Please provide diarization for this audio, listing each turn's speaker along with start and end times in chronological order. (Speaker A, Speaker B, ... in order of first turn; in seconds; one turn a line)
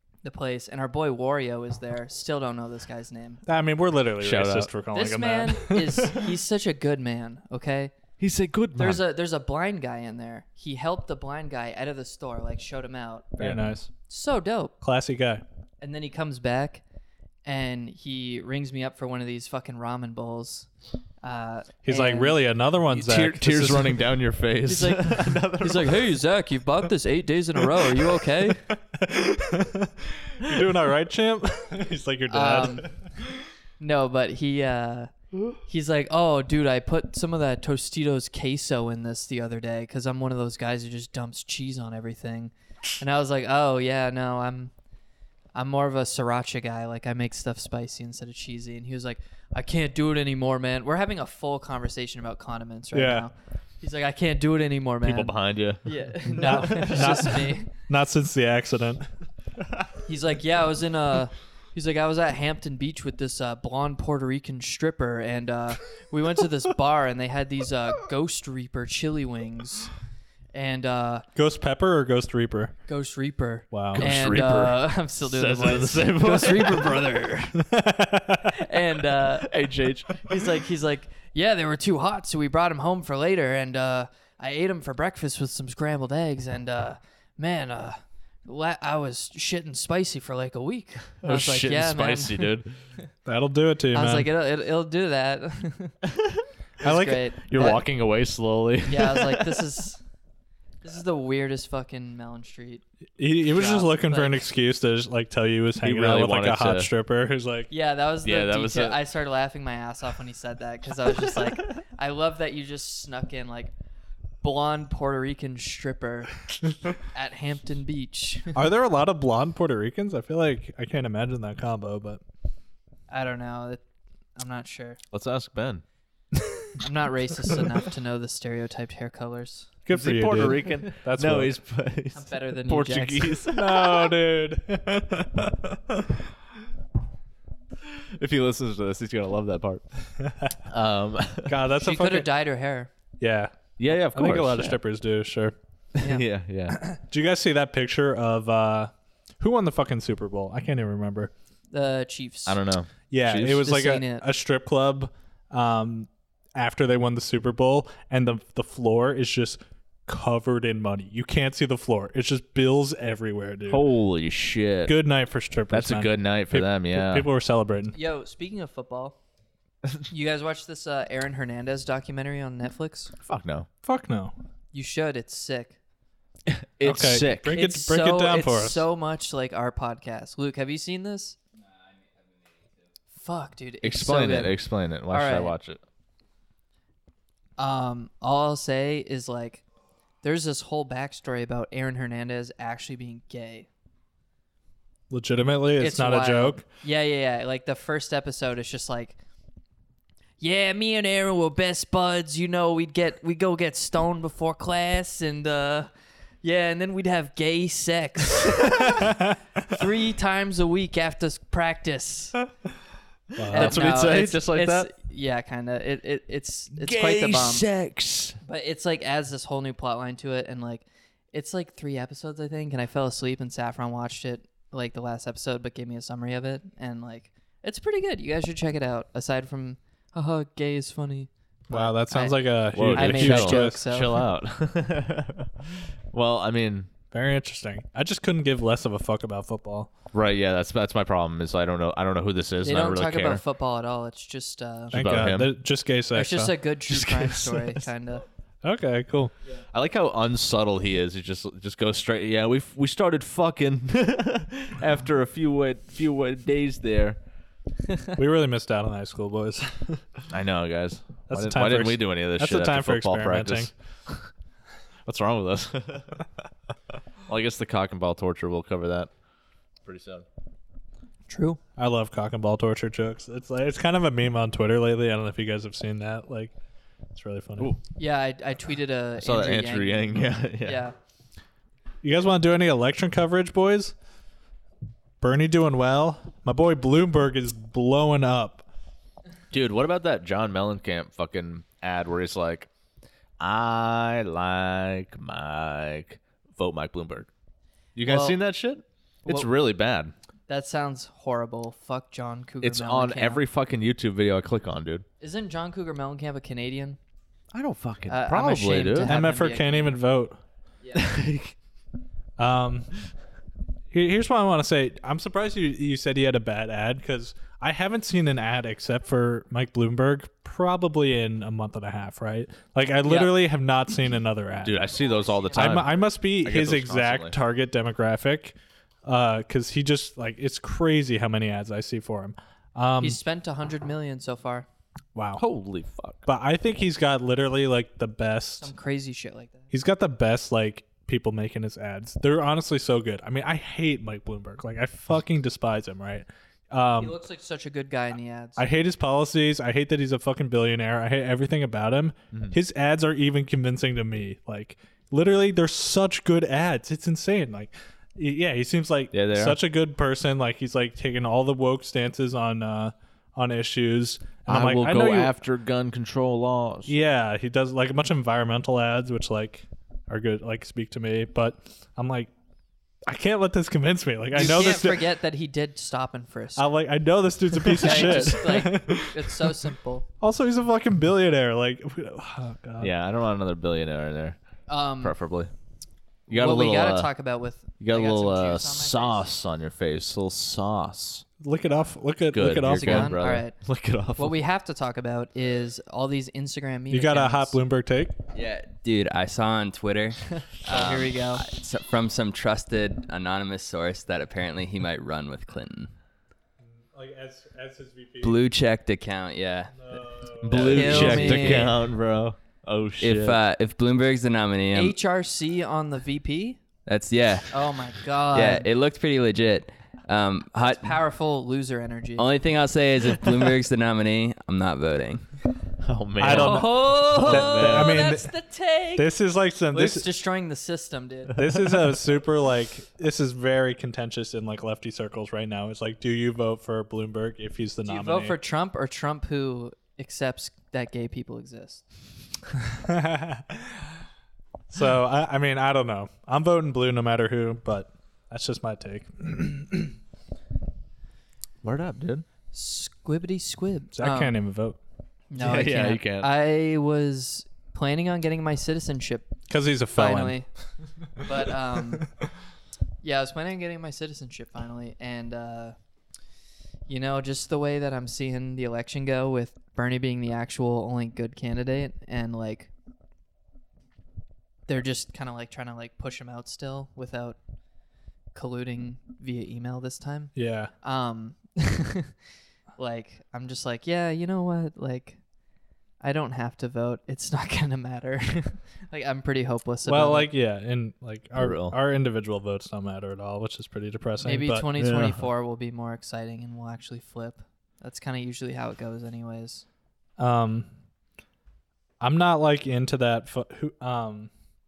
Speaker A: 0.2-3.4
Speaker B: 3.5-6.0
Speaker C: 4.2-4.7
Speaker A: 4.9-7.9
Speaker C: 8.2-9.0
Speaker A: 8.8-14.7
Speaker B: 13.4-13.9
Speaker B: 14.8-15.4
Speaker A: 15.8-16.8
Speaker A: 17.4-20.7
Speaker A: 21.2-22.4
Speaker B: 21.8-24.1
Speaker C: 22.9-26.1
Speaker A: 24.6-28.6
Speaker B: 28.9-32.9
Speaker A: 32.3-32.9
Speaker A: 33.8-35.1
Speaker A: 35.6-44.7
Speaker A: 45.5-57.7
Speaker B: 52.9-53.2
Speaker C: 55.0-57.3
Speaker B: 56.4-59.1
Speaker A: 60.0-69.9
Speaker A: 70.5-71.2
Speaker B: 71.3-72.7
Speaker A: 72.9-77.6
Speaker B: 73.7-74.0
Speaker C: 73.9-77.1
Speaker B: 77.6-78.6
Speaker A: 78.5-79.5
Speaker C: 79.4-80.3
Speaker A: 80.2-92.5
Speaker C: 91.2-92.7
Speaker B: 93.2-94.3
Speaker A: 93.9-96.0
Speaker C: 96.2-96.4
Speaker B: 96.8-97.2
Speaker A: 96.8-97.8
Speaker C: 97.5-99.6
Speaker A: 98.8-100.0
Speaker A: 100.8-102.8
Speaker B: 103.2-107.7
Speaker A: 103.5-104.4
Speaker C: 105.8-106.9
Speaker A: 107.7-113.7
Speaker C: 108.2-109.0
Speaker A: 114.4-116.4
Speaker A: 117.0-118.6
Speaker B: 118.5-122.2
Speaker A: 123.1-123.8
Speaker A: 124.3-125.0
Speaker C: 125.1-125.8
Speaker A: 126.8-129.7
Speaker B: 129.8-131.6
Speaker C: 129.9-134.1
Speaker A: 132.1-133.4
Speaker B: 133.5-136.0
Speaker C: 137.8-139.8
Speaker B: 140.2-140.5
Speaker C: 140.7-141.5
Speaker B: 141.5-142.3
Speaker A: 141.8-142.9
Speaker B: 143.2-143.6
Speaker C: 143.8-144.8
Speaker B: 144.1-145.5
Speaker C: 145.9-146.8
Speaker B: 146.7-151.3
Speaker A: 151.7-152.6
Speaker C: 152.4-153.6
Speaker B: 153.1-163.8
Speaker A: 153.5-154.2
Speaker C: 163.7-164.9
Speaker B: 164.9-168.0
Speaker C: 165.7-167.3
Speaker A: 167.9-169.2
Speaker A: 170.1-173.1
Speaker C: 173.2-173.7
Speaker B: 173.8-174.3
Speaker A: 174.7-175.8
Speaker C: 176.4-177.6
Speaker B: 176.8-178.8
Speaker A: 177.4-181.4
Speaker A: 183.1-184.6
Speaker C: 183.8-185.8
Speaker A: 185.1-185.5
Speaker A: 187.6-189.6
Speaker A: 190.2-193.7
Speaker B: 195.1-196.7
Speaker A: 195.8-199.2
Speaker A: 200.4-205.9
Speaker A: 206.4-212.4
Speaker B: 213.3-213.8
Speaker C: 213.5-214.9
Speaker A: 213.5-217.7
Speaker C: 216.8-218.4
Speaker A: 218.4-234.2
Speaker B: 231.7-233.8
Speaker C: 232.7-236.9
Speaker B: 237.1-239.9
Speaker C: 240.1-243.4
Speaker A: 242.6-244.9
Speaker C: 244.9-245.5
Speaker B: 244.9-246.5
Speaker A: 246.1-248.2
Speaker C: 246.9-247.4
Speaker B: 248.6-249.3
Speaker C: 249.7-257.2
Speaker B: 258.1-260.0
Speaker C: 260.3-264.3
Speaker B: 261.3-263.7
Speaker C: 265.1-266.2
Speaker C: 267.3-269.1
Speaker C: 269.8-270.2
Speaker A: 271.3-271.6
Speaker B: 271.8-276.5
Speaker B: 277.1-277.7
Speaker A: 278.0-280.9
Speaker C: 279.2-280.8
Speaker B: 282.0-283.9
Speaker B: 285.2-288.6
Speaker C: 289.5-292.7
Speaker C: 293.4-297.3
Speaker C: 297.9-300.1
Speaker A: 298.0-298.4
Speaker A: 300.5-303.4
Speaker C: 302.6-305.0
Speaker A: 305.2-307.0
Speaker C: 307.5-309.1
Speaker A: 308.1-309.9
Speaker B: 309.1-310.4
Speaker A: 310.8-311.1
Speaker C: 310.9-311.6
Speaker B: 312.4-313.0
Speaker B: 313.9-324.8
Speaker A: 323.0-323.3
Speaker C: 324.6-325.9
Speaker A: 324.9-325.9
Speaker B: 325.5-333.2
Speaker C: 326.4-327.4
Speaker A: 333.0-334.7
Speaker B: 335.1-335.4
Speaker C: 335.4-336.2
Speaker B: 336.2-338.7
Speaker A: 338.6-339.7
Speaker B: 339.7-347.1
Speaker A: 347.0-348.6
Speaker B: 348.6-365.3
Speaker C: 359.1-359.6
Speaker C: 364.5-366.9
Speaker B: 366.9-372.3
Speaker B: 373.1-375.1
Speaker A: 374.3-376.6
Speaker B: 376.6-379.6
Speaker A: 377.7-380.0
Speaker B: 380.2-382.9
Speaker C: 382.8-384.4
Speaker A: 384.7-385.1
Speaker C: 385.0-385.5
Speaker C: 386.3-387.1
Speaker A: 386.3-389.2
Speaker C: 387.8-391.2
Speaker B: 391.4-393.2
Speaker C: 392.3-394.4
Speaker A: 392.7-393.6
Speaker A: 394.1-397.6
Speaker B: 396.9-398.1
Speaker D: 398.3-405.9
Speaker A: 400.6-401.4
Speaker B: 406.9-408.4
Speaker D: 408.2-410.0
Speaker B: 409.8-411.2
Speaker C: 410.4-413.4
Speaker D: 410.5-411.7
Speaker A: 410.6-411.8
Speaker D: 413.0-414.9
Speaker A: 414.7-416.6
Speaker D: 416.9-417.6
Speaker A: 417.5-418.6
Speaker D: 418.3-421.0
Speaker A: 420.7-422.2
Speaker D: 422.2-425.3
Speaker C: 425.8-428.0
Speaker B: 426.2-428.3
Speaker A: 426.3-429.1
Speaker B: 428.9-430.1
Speaker A: 429.7-431.4
Speaker B: 431.4-438.4
Speaker A: 437.8-441.8
Speaker B: 442.7-443.9
Speaker B: 444.7-449.9
Speaker C: 451.6-452.2
Speaker A: 452.5-454.3
Speaker B: 453.9-454.8
Speaker A: 455.3-459.3
Speaker C: 455.4-456.3
Speaker B: 459.5-460.4
Speaker A: 459.9-460.5
Speaker A: 461.2-462.1
Speaker A: 463.0-465.7
Speaker A: 466.9-472.7
Speaker A: 474.7-477.4
Speaker A: 478.3-482.1
Speaker B: 480.4-480.7
Speaker A: 482.8-485.2
Speaker A: 486.0-490.3
Speaker B: 489.9-494.7
Speaker C: 491.4-491.8
Speaker A: 494.2-499.6
Speaker C: 494.8-495.2
Speaker B: 500.2-500.7
Speaker B: 502.0-504.3